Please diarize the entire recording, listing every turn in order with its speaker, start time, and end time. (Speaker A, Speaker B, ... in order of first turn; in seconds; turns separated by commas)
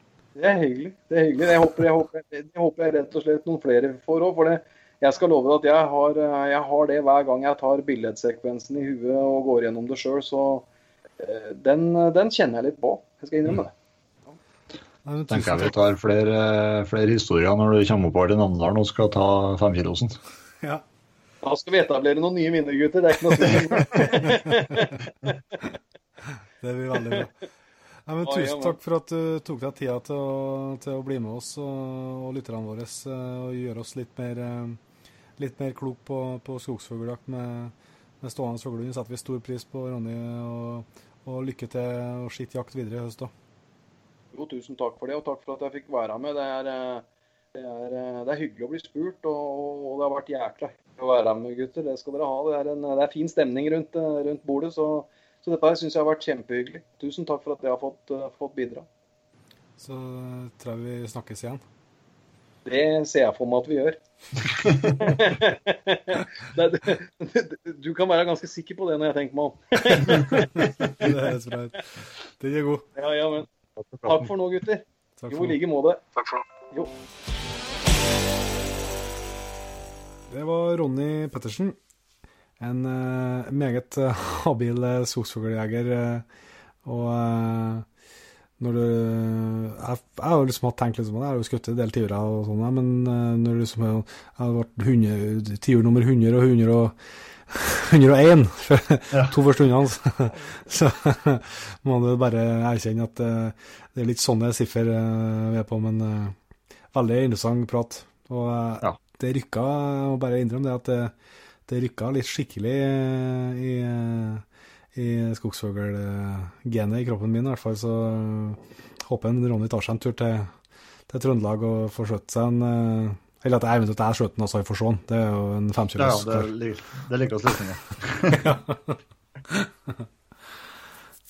Speaker A: 0.3-10.7, Speaker A: 11.2-13.7, Speaker B: 15.0-15.7, Speaker C: 15.3-20.2, Speaker A: 21.4-25.6, Speaker B: 24.2-24.7, Speaker B: 26.6-27.4, Speaker B: 28.1-34.8, Speaker A: 28.2-28.8, Speaker B: 35.4-43.3, Speaker A: 44.3-58.9, Speaker B: 59.8-61.6, Speaker A: 62.6-64.0, Speaker A: 64.8-71.1, Speaker B: 70.8-72.9, Speaker A: 73.0-73.5, Speaker C: 73.8-74.3, Speaker A: 74.0-76.0, Speaker B: 75.2-75.5, Speaker B: 80.3-81.8, Speaker B: 82.6-86.2, Speaker B: 86.8-87.8, Speaker B: 88.6-97.0, Speaker B: 97.5-106.3, Speaker B: 106.9-111.1, Speaker B: 111.7-120.5, Speaker B: 121.1-126.5, Speaker C: 126.0-128.5, Speaker B: 128.3-130.0